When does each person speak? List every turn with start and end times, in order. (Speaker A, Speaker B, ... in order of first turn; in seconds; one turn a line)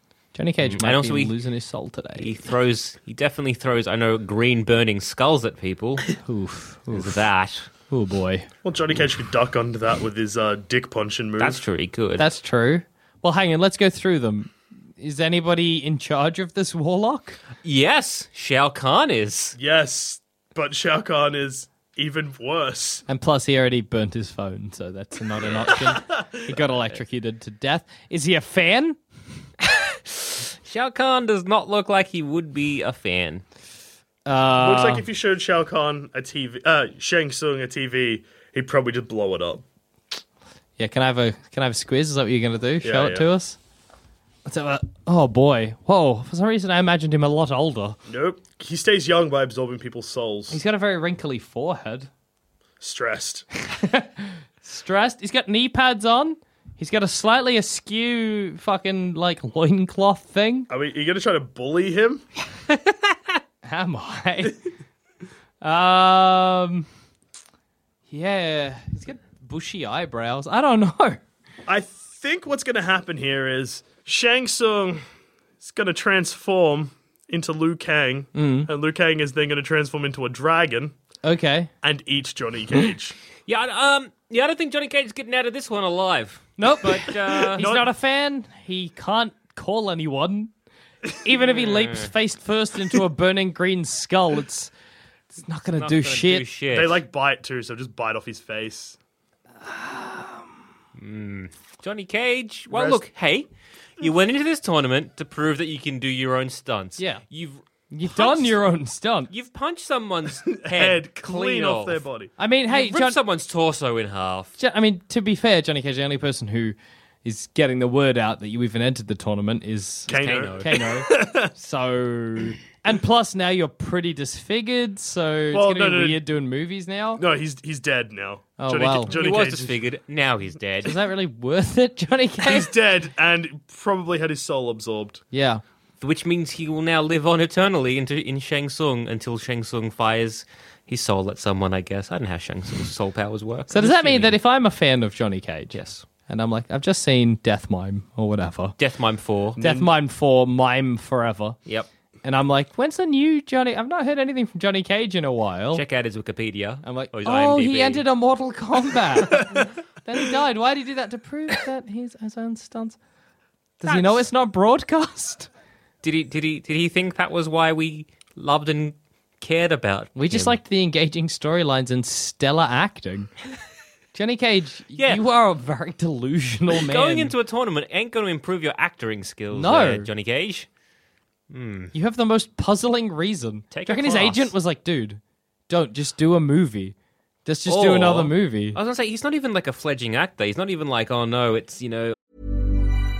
Speaker A: 0.3-2.3
Speaker B: 0.6-1.3
Speaker B: 2.1-6.2
Speaker A: 6.2-7.2
Speaker B: 6.9-7.7
Speaker A: 7.9-8.5
Speaker C: 8.6-11.6
Speaker B: 11.4-12.3
Speaker A: 12.2-17.4
Speaker B: 17.6-19.6
Speaker C: 19.6-23.0
Speaker A: 23.1-29.0
Speaker C: 25.9-26.4
Speaker B: 30.6-33.4
Speaker A: 34.2-35.0
Speaker C: 34.5-39.6
Speaker A: 40.8-43.6
Speaker C: 42.8-43.2
Speaker A: 44.5-48.0
Speaker C: 48.1-50.6
Speaker A: 50.5-52.1
Speaker C: 52.8-53.5
Speaker A: 53.6-60.7
Speaker C: 60.7-62.2
Speaker A: 63.6-64.6
Speaker A: 65.6-66.9
Speaker A: 68.1-71.2
Speaker C: 71.7-75.0
Speaker C: 75.6-80.9
Speaker A: 78.3-78.7
Speaker A: 81.2-81.7
Speaker C: 81.8-83.2
Speaker B: 83.5-87.7
Speaker A: 86.6-90.5
Speaker C: 87.5-87.9
Speaker A: 91.2-94.7
Speaker B: 91.4-92.1
Speaker A: 95.3-96.4
Speaker B: 95.7-97.0
Speaker C: 96.7-99.0
Speaker A: 99.6-100.5
Speaker B: 101.0-108.6
Speaker C: 102.7-103.0
Speaker A: 107.0-107.2
Speaker A: 107.9-109.3
Speaker B: 109.3-112.0
Speaker C: 110.5-112.3
Speaker A: 112.4-113.2
Speaker B: 112.7-114.5
Speaker A: 114.6-127.2
Speaker C: 120.1-121.5
Speaker B: 120.1-120.8
Speaker C: 125.5-126.2
Speaker C: 127.2-129.8
Speaker A: 128.6-129.1
Speaker B: 129.1-130.9
Speaker A: 130.8-132.7
Speaker C: 132.4-135.2
Speaker A: 135.3-135.6
Speaker B: 136.0-144.4
Speaker A: 143.7-145.7
Speaker B: 145.7-146.0
Speaker A: 146.3-148.8
Speaker B: 148.8-149.6
Speaker C: 149.6-149.9
Speaker A: 149.6-151.6
Speaker A: 152.2-155.8
Speaker B: 155.7-158.0
Speaker A: 156.8-163.0
Speaker A: 163.8-165.5
Speaker B: 163.9-164.2
Speaker B: 166.0-170.6
Speaker A: 170.2-173.3
Speaker A: 174.1-177.3
Speaker B: 174.9-175.2
Speaker B: 176.7-180.7
Speaker A: 179.5-180.1
Speaker B: 181.5-181.9
Speaker A: 181.9-186.9
Speaker B: 183.7-184.5
Speaker A: 187.4-188.8
Speaker B: 187.7-192.2